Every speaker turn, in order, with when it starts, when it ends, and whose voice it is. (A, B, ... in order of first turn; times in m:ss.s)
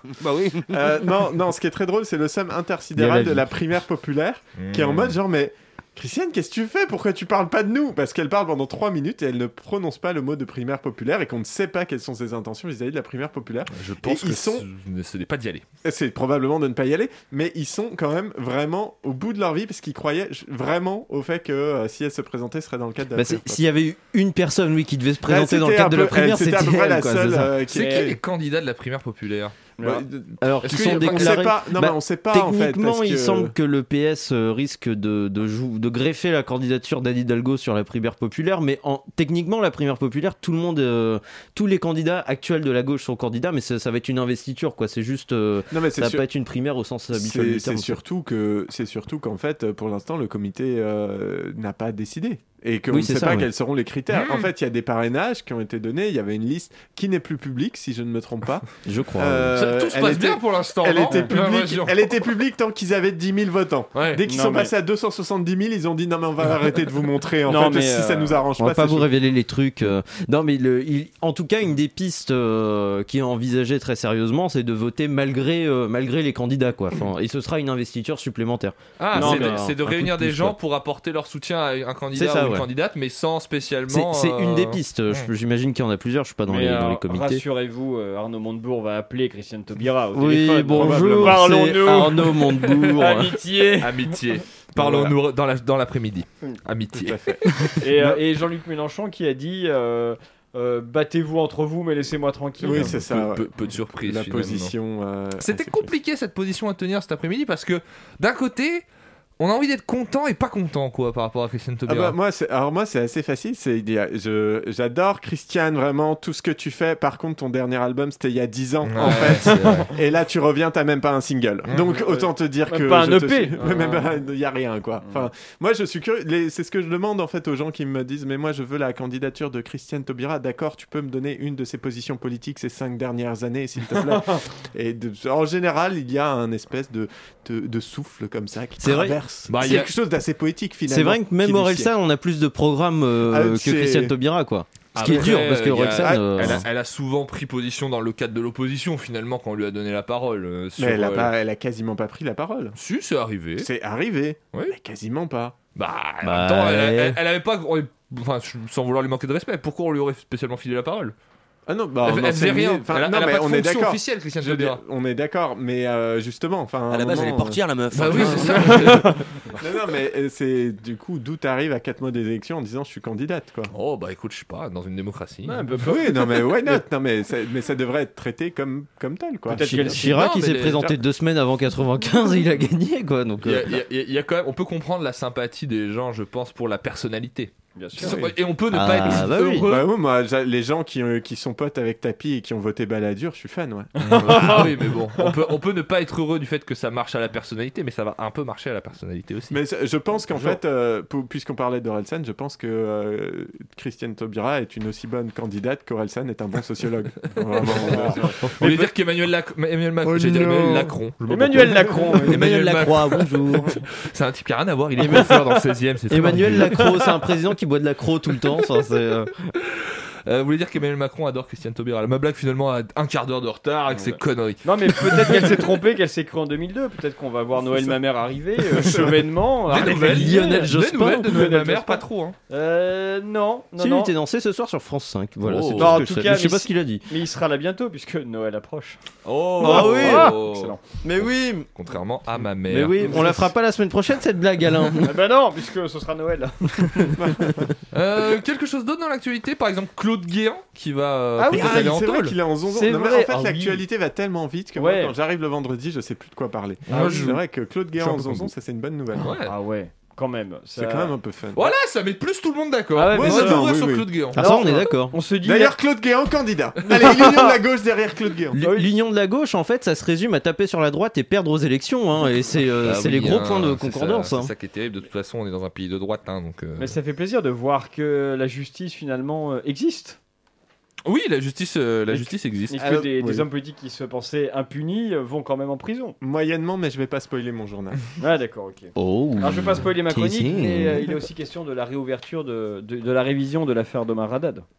0:00.2-0:01.0 A
0:00.7-0:14.7 B
0:03.0-0:03.5 C
0:04.6-0:05.2 D
0:13.7-0:15.6 D
0:15.8-0:23.6 B
0:23.2-0:27.6 C
0:25.2-0:28.2 B
0:27.7-0:29.6 D
0:27.7-0:28.1 E
0:29.8-0:30.0 E
0:29.8-0:33.5 B
0:30.4-0:48.0 C
0:30.6-0:31.5 D
0:45.7-0:46.2 B
0:47.1-0:58.7 B
0:52.9-0:53.5 C
0:54.1-0:54.5 D
0:58.8-0:59.6 C
0:59.2-1:09.1 B
0:59.5-1:02.2 D
1:04.0-1:04.2 D
1:04.2-1:04.7 E
1:07.5-1:08.5 E
1:08.6-1:20.6 C
1:19.0-1:25.3 D
1:19.2-1:19.7 E
1:22.1-1:22.7 C
1:23.9-1:27.4 C
1:26.5-1:34.2 E
1:30.2-1:33.4 C
1:32.7-1:33.0 D
1:33.8-1:37.7 D
1:34.8-1:35.2 B
1:37.0-1:38.2 B
1:37.8-1:43.0 E
1:42.6-1:45.9 B
1:42.7-1:44.8 D
1:45.4-1:48.8 D
1:49.4-1:52.2 D
1:51.9-2:21.9 B
1:58.8-1:59.9 D
1:59.0-1:59.9 E
2:01.7-2:02.0 D
2:02.0-2:04.2 E
2:18.8-2:19.2 C
2:19.5-2:19.9 D
2:20.9-2:26.6 C
2:23.2-2:24.2 B
2:25.0-2:31.3 D
2:25.0-2:26.7 B
2:30.8-2:32.8 B
2:32.8-2:33.7 D
2:33.6-2:35.6 B
2:35.8-2:41.2 D
2:36.2-2:37.0 C
2:36.7-2:37.2 A
2:41.7-2:48.9 B
2:42.0-2:44.8 D
2:46.9-2:49.0 A
2:47.9-2:49.2 D
2:48.7-2:49.2 E
2:49.6-2:53.7 B
2:53.7-2:55.7 D
2:55.4-2:56.8 E
2:55.8-3:00.2 B
2:59.5-3:00.2 E
2:59.6-3:03.8 C
3:00.0-3:00.9 D
3:03.4-3:09.9 D
3:07.8-3:08.2 E
3:08.0-3:08.3 B
3:08.7-3:09.7 C
3:09.1-3:14.6 B
3:14.0-3:15.4 E
3:14.0-3:19.6 D
3:19.5-3:28.8 B
3:27.6-3:37.0 D
3:27.8-3:28.4 E
3:30.1-3:30.9 B
3:31.2-3:32.5 E
3:32.3-3:33.8 A
3:35.0-3:35.4 C
3:36.1-3:39.3 C
3:39.8-3:45.7 D
3:43.9-3:50.8 E
3:49.7-3:52.4 D
3:50.0-3:51.5 C
3:51.3-3:54.1 E
3:53.8-3:57.1 C
3:55.4-3:56.0 A
3:55.8-3:59.0 E
3:59.2-4:03.4 D
3:59.6-4:00.8 E
3:59.6-4:00.4 C
4:01.0-4:01.7 C
4:02.7-4:05.2 C
4:03.0-4:03.4 E
4:05.0-4:07.2 E
4:07.2-4:07.7 B
4:07.9-4:12.4 D
4:11.4-4:11.9 E
4:11.5-4:19.4 B
4:12.6-4:13.8 E
4:14.8-4:15.2 E
4:16.9-4:17.4 D
4:16.9-4:17.4 E
4:18.0-4:18.5 D
4:19.1-4:19.5 D
4:19.4-4:21.2 E
4:20.8-4:21.7 B
4:21.5-4:24.4 D
4:23.0-4:23.8 E
4:23.1-4:24.3 B
4:24.4-4:25.2 C
4:24.4-4:25.8 E
4:25.4-4:28.6 B
4:26.9-4:27.6 E
4:28.5-4:34.5 C
4:28.6-4:28.9 E
4:32.8-4:37.0 D
4:36.8-4:40.2 E
4:41.0-4:42.8 D
4:42.1-4:46.2 E
4:42.8-4:43.5 B
4:46.2-4:48.1 B
4:48.2-4:54.6 E
4:49.0-4:51.1 A